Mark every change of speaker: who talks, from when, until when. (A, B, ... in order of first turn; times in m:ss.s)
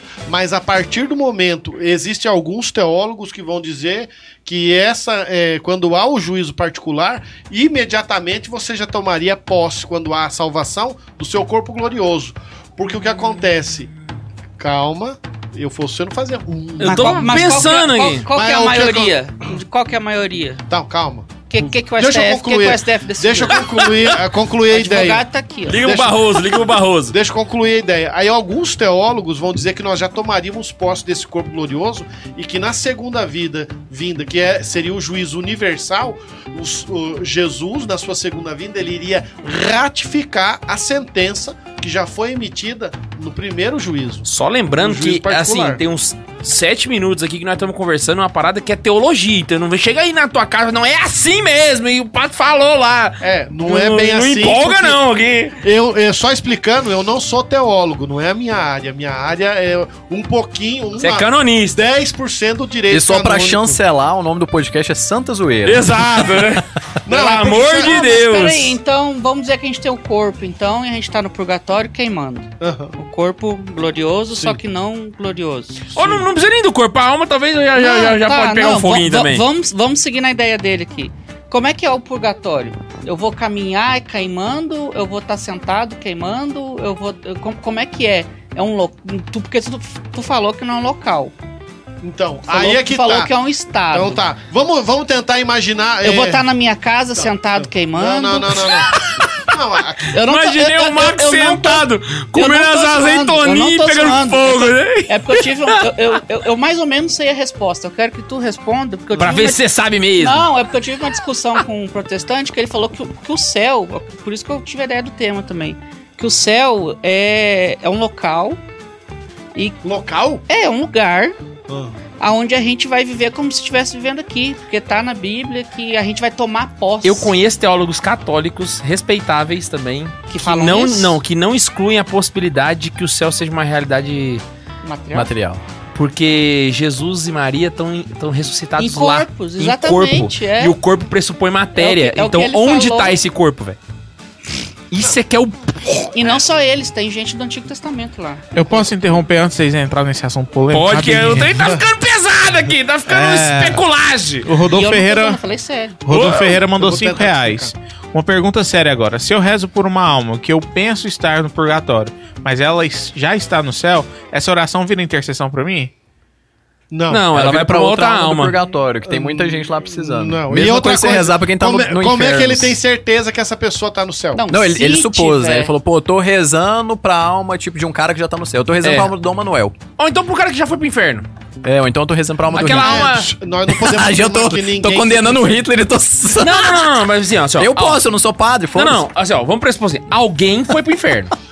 0:00.3-0:13.9 A
0:14.6-0:17.3 A
0:16.8-0:18.3 B
0:16.8-0:20.6 C
0:18.3-0:19.2 A
0:20.7-0:45.8 A
0:21.5-0:23.7 C
0:24.7-0:25.8 C
0:25.7-0:27.2 B
0:44.3-0:55.6 B
0:53.2-0:55.0 A
0:55.6-1:03.8 A
1:01.0-1:01.8 B
1:02.9-1:06.1 D
1:05.7-1:08.8 B
1:07.1-1:08.0 A
1:07.8-1:15.9 C
1:12.6-1:13.0 A
1:14.3-1:14.6 A
1:15.9-1:19.4 B
1:17.8-1:31.3 C
1:32.0-1:33.3 A
1:32.5-1:34.2 C
1:33.9-1:36.4 A
1:36.0-1:38.6 C
1:37.2-1:40.2 A
1:38.9-1:39.3 B
1:40.1-1:49.6 C
1:40.2-1:45.8 B
1:49.2-1:50.5 B
1:50.2-1:58.6 C
1:59.8-2:00.4 A
2:00.5-2:01.4 C
2:01.7-2:02.0 A
2:02.2-2:07.3 C
2:07.0-2:14.4 B
2:10.3-2:11.2 C
2:14.8-2:15.3 C
2:15.1-2:15.6 D
2:15.9-2:23.8 B
2:18.8-2:20.8 C
2:21.8-2:23.2 C
2:24.9-2:26.1 B
2:26.1-2:28.5 C
2:28.5-2:31.7 E
2:30.7-2:34.5 B
2:33.1-2:33.8 E
2:34.4-2:35.4 E
2:34.7-2:36.0 C
2:36.0-2:45.9 E
2:36.1-2:36.6 B
2:36.6-2:37.7 A
2:46.9-2:47.3 A
2:47.1-2:48.6 B
2:47.3-2:52.8 D
2:49.1-2:54.4 A
2:54.3-2:55.7 C
2:54.5-2:59.8 D
2:58.8-2:59.1 B
3:00.0-3:01.3 B
3:01.6-3:03.1 D
3:02.5-3:03.3 B
3:02.6-3:05.6 A
3:03.7-3:06.8 D
3:06.4-3:08.0 B
3:07.6-3:09.0 D
3:08.8-3:11.3 B